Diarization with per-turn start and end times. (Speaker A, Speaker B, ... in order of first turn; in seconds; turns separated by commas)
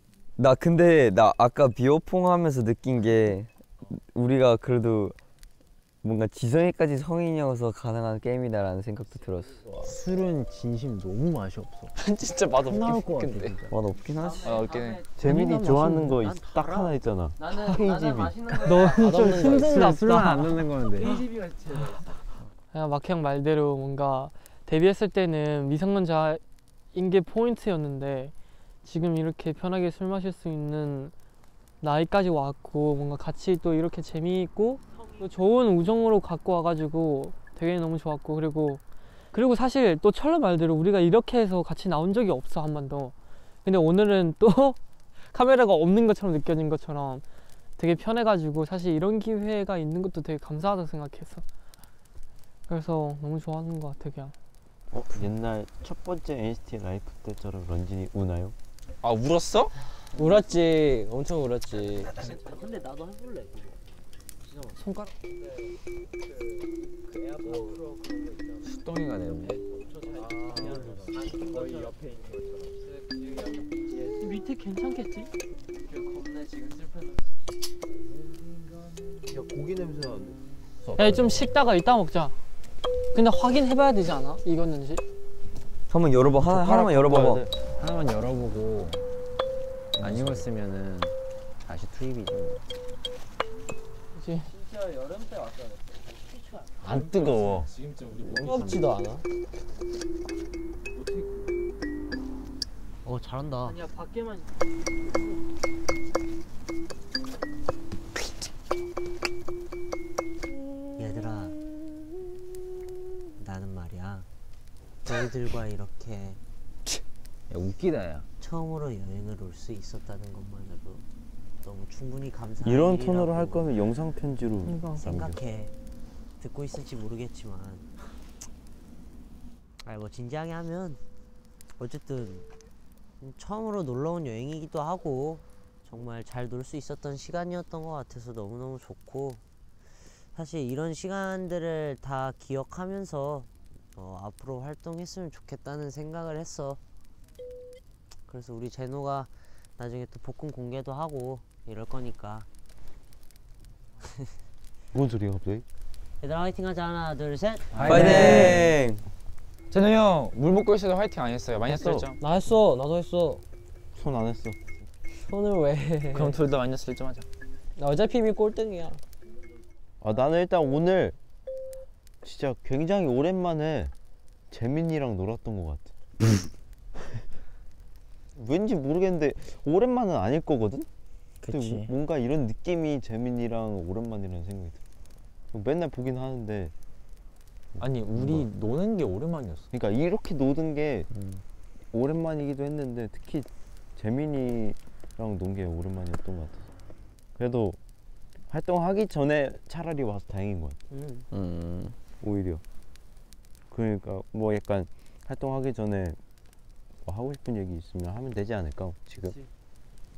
Speaker A: 0.4-5.2, Speaker A: 6.0-9.6, Speaker B: 9.8-11.9, Speaker C: 12.0-13.6, Speaker B: 12.6-13.7, Speaker A: 13.7-14.7, Speaker C: 14.4-15.1, Speaker D: 15.2-18.7, Speaker E: 15.3-16.9, Speaker F: 18.6-20.7, Speaker G: 18.7-20.2, Speaker B: 18.9-21.3, Speaker F: 22.7-26.4, Speaker F: 26.9-28.3, Speaker F: 28.8-31.1, Speaker F: 31.8-38.8, Speaker F: 39.3-44.8, Speaker F: 45.3-47.2, Speaker F: 47.8-51.4, Speaker F: 52.7-54.3, Speaker D: 54.9-58.5, Speaker C: 59.0-59.7, Speaker G: 60.1-62.1, Speaker E: 62.2-63.8, Speaker C: 64.8-65.1, Speaker B: 68.6-69.6, Speaker E: 70.3-70.8, Speaker F: 74.1-75.3, Speaker D: 79.3-80.4, Speaker B: 80.8-81.5, Speaker F: 81.0-82.3, Speaker F: 83.1-85.0, Speaker A: 85.9-87.4, Speaker D: 86.4-87.5, Speaker B: 87.8-89.0, Speaker B: 90.0-92.6, Speaker D: 90.0-90.4, Speaker F: 94.2-94.5, Speaker D: 96.8-97.7, Speaker C: 96.8-98.9, Speaker G: 98.3-99.2, Speaker E: 103.0-103.8, Speaker F: 103.8-104.4, Speaker E: 111.0-111.5, Speaker E: 113.4-114.3, Speaker E: 115.0-116.4, Speaker B: 117.5-118.2, Speaker E: 118.4-121.0, Speaker E: 121.6-123.7, Speaker D: 122.6-125.4, Speaker F: 124.6-125.0, Speaker E: 125.0-125.7, Speaker E: 126.4-127.9, Speaker E: 129.8-131.0, Speaker E: 131.8-132.5, Speaker E: 133.2-139.4, Speaker E: 140.3-146.8, Speaker E: 148.3-152.5, Speaker D: 154.9-155.6, Speaker E: 156.2-158.4, Speaker B: 157.7-158.7, Speaker D: 157.8-158.6, Speaker A: 157.8-159.0, Speaker C: 157.9-158.6, Speaker C: 159.7-162.2, Speaker D: 161.7-162.1, Speaker G: 162.2-163.4, Speaker D: 163.9-164.6, Speaker G: 165.2-166.4, Speaker C: 166.1-167.2, Speaker G: 167.8-169.0, Speaker D: 170.0-171.2, Speaker D: 172.2-173.9, Speaker D: 174.5-175.9, Speaker D: 178.3-180.9, Speaker B: 181.4-181.9, Speaker D: 181.5-184.8, Speaker D: 185.5-186.7, Speaker D: 187.8-188.5, Speaker C: 187.8-189.7, Speaker D: 189.7-191.1, Speaker D: 191.9-196.6, Speaker D: 197.4-197.8, Speaker D: 198.5-200.8, Speaker E: 200.9-201.2, Speaker A: 201.3-201.9, Speaker D: 202.2-202.6, Speaker D: 203.7-206.2, Speaker D: 207.0-209.4